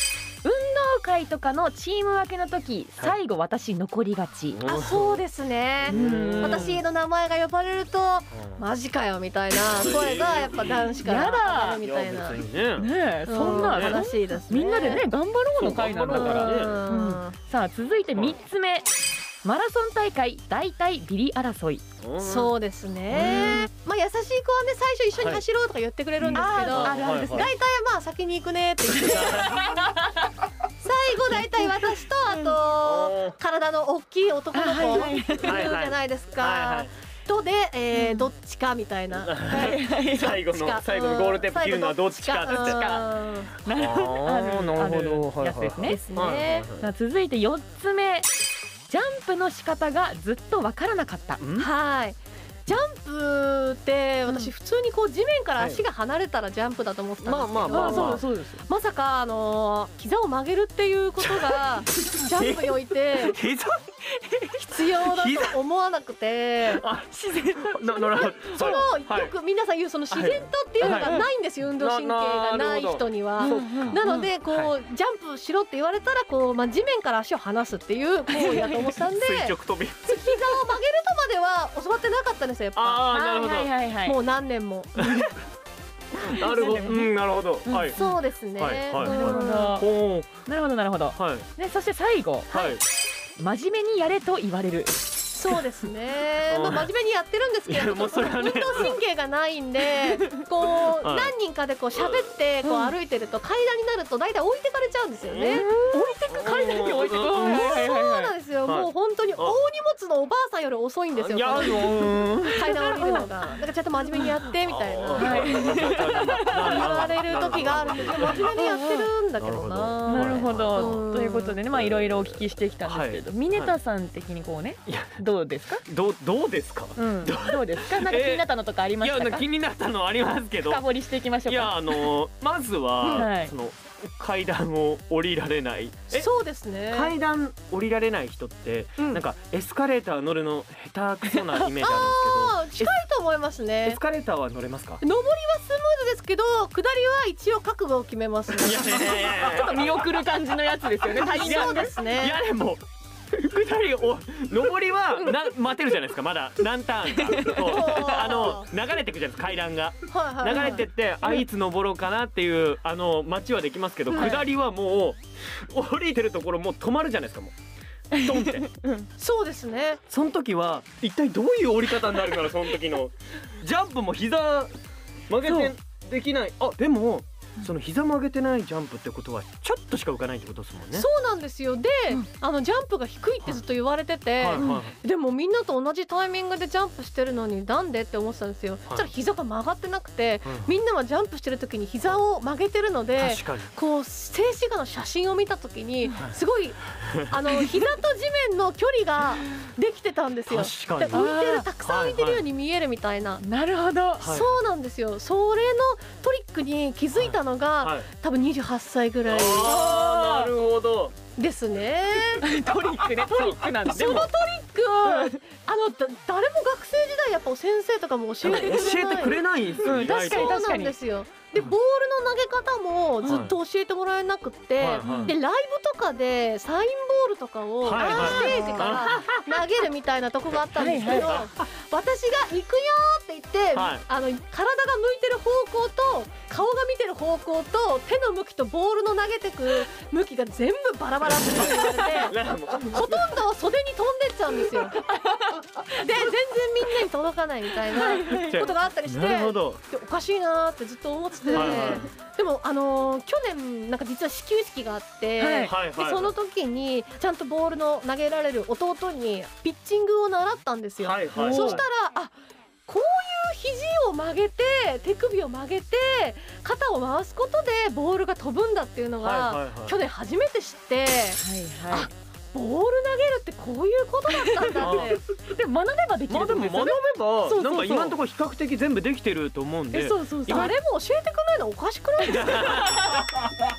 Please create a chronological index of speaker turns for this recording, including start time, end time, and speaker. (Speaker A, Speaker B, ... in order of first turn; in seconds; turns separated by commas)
Speaker A: 0.4-4.6, Speaker B: 4.5-5.2, Speaker C: 4.7-12.4, Speaker B: 5.8-6.7, Speaker A: 5.9-6.8, Speaker B: 8.3-8.6, Speaker B: 9.7-10.7, Speaker A: 11.1-11.8, Speaker B: 11.8-14.0, Speaker A: 12.8-18.9, Speaker C: 13.3-15.1, Speaker B: 15.6-16.8, Speaker C: 16.1-17.3, Speaker A: 19.4-21.9, Speaker B: 22.0-22.5, Speaker C: 22.2-29.7, Speaker B: 23.1-23.6, Speaker A: 23.2-23.6, Speaker B: 25.2-25.4, Speaker B: 26.2-27.5, Speaker A: 26.3-27.5, Speaker B: 28.9-29.6, Speaker A: 29.4-30.3, Speaker C: 30.8-43.5, Speaker A: 32.3-32.6, Speaker B: 32.7-33.4, Speaker A: 34.5-35.7, Speaker B: 35.4-36.9, Speaker A: 37.9-38.3, Speaker B: 39.2-43.0, Speaker A: 39.5-40.4, Speaker A: 42.5-43.1, Speaker A: 43.6-46.0, Speaker B: 43.7-46.9, Speaker C: 45.9-46.7, Speaker A: 46.8-48.3, Speaker A: 48.9-51.4, Speaker B: 51.4-51.7, Speaker C: 51.5-63.4, Speaker B: 55.6-55.8, Speaker B: 57.2-58.2, Speaker A: 57.7-58.6, Speaker B: 61.2-61.6, Speaker B: 62.2-63.8, Speaker A: 64.2-64.6, Speaker C: 64.6-66.8, Speaker B: 65.0-65.6, Speaker B: 66.7-69.3, Speaker A: 67.1-68.9, Speaker C: 68.2-83.4, Speaker B: 70.1-71.2, Speaker A: 70.8-71.2, Speaker B: 71.8-74.0, Speaker A: 73.4-74.3, Speaker A: 78.3-78.9, Speaker B: 79.1-80.2, Speaker B: 82.7-83.7, Speaker A: 83.1-84.2, Speaker C: 84.0-85.3, Speaker B: 85.0-85.3, Speaker B: 86.2-88.0, Speaker A: 86.2-87.1, Speaker C: 86.3-87.0, Speaker A: 87.7-88.2, Speaker C: 88.0-89.8, Speaker B: 88.6-90.3, Speaker A: 89.0-89.9, Speaker A: 90.5-92.6, Speaker B: 91.1-91.5, Speaker B: 92.5-92.8, Speaker A: 93.4-95.0, Speaker C: 95.3-106.0, Speaker B: 96.5-96.9, Speaker B: 97.7-99.0, Speaker B: 100.7-101.3, Speaker B: 101.9-102.3, Speaker A: 102.6-102.9, Speaker B: 105.3-105.7, Speaker A: 105.5-108.3, Speaker B: 106.3-107.7, Speaker C: 107.4-115.9, Speaker B: 108.7-109.6, Speaker B: 111.1-113.0, Speaker A: 112.7-113.3, Speaker B: 114.6-118.5, Speaker A: 115.2-117.0, Speaker C: 116.5-121.6, Speaker A: 118.2-119.1, Speaker B: 119.4-121.0, Speaker A: 120.0-125.8, Speaker B: 121.7-123.7, Speaker B: 124.9-125.2, Speaker B: 125.8-128.5, Speaker A: 127.0-129.4, Speaker B: 129.0-130.9, Speaker A: 130.6-132.1, Speaker B: 131.4-136.3, Speaker A: 133.1-133.5, Speaker C: 136.1-137.2, Speaker B: 136.9-142.9, Speaker A: 141.3-141.6, Speaker C: 141.8-144.0, Speaker B: 143.8-145.0, Speaker C: 145.0-149.7, Speaker B: 148.6-150.2, Speaker A: 149.5-151.9, Speaker C: 151.1-152.4, Speaker B: 151.2-167.5, Speaker A: 157.2-158.0, Speaker C: 157.6-158.7, Speaker C: 160.1-160.9, Speaker A: 164.1-164.4, Speaker A: 168.1-169.1, Speaker B: 168.2-168.7, Speaker C: 169.2-170.0, Speaker B: 170.1-174.7, Speaker B: 175.3-181.1, Speaker A: 175.4-175.7, Speaker C: 180.9-203.4, Speaker B: 184.4-185.0, Speaker A: 184.6-184.9, Speaker B: 190.4-190.7, Speaker B: 193.2-193.7, Speaker B: 200.5-202.4, Speaker A: 201.1-201.7, Speaker A: 203.4-204.3, Speaker B: 204.2-204.6, Speaker C: 204.2-209.9, Speaker B: 207.2-208.1, Speaker B: 209.3-211.2, Speaker A: 209.6-210.5, Speaker C: 211.4-212.4, Speaker A: 212.4-214.2, Speaker B: 213.2-214.3, Speaker C: 213.9-245.0, Speaker A: 215.0-215.4, Speaker B: 218.4-220.6, Speaker A: 219.8-220.9, Speaker B: 223.2-223.6, Speaker B: 224.8-225.3, Speaker A: 225.0-225.3, Speaker B: 227.8-229.6, Speaker A: 228.0-229.1, Speaker A: 230.8-231.4, Speaker B: 230.9-231.5, Speaker B: 233.7-234.1, Speaker B: 242.2-243.3, Speaker A: 244.9-246.0, Speaker C: 245.9-262.3, Speaker A: 247.9-248.6, Speaker B: 248.3-249.8, Speaker A: 251.5-251.9, Speaker B: 251.5-252.1, Speaker A: 255.4-255.7, Speaker B: 255.7-256.3, Speaker B: 261.0-261.9, Speaker A: 261.4-261.8, Speaker C: 262.9-275.2, Speaker B: 269.2-270.0, Speaker A: 271.4-272.1, Speaker A: 274.4-274.9, Speaker B: 274.8-275.2, Speaker A: 275.4-278.0, Speaker B: 276.3-280.7, Speaker C: 277.8-278.2, Speaker A: 279.9-280.7, Speaker C: 280.4-282.9, Speaker B: 282.3-283.3, Speaker A: 282.6-283.3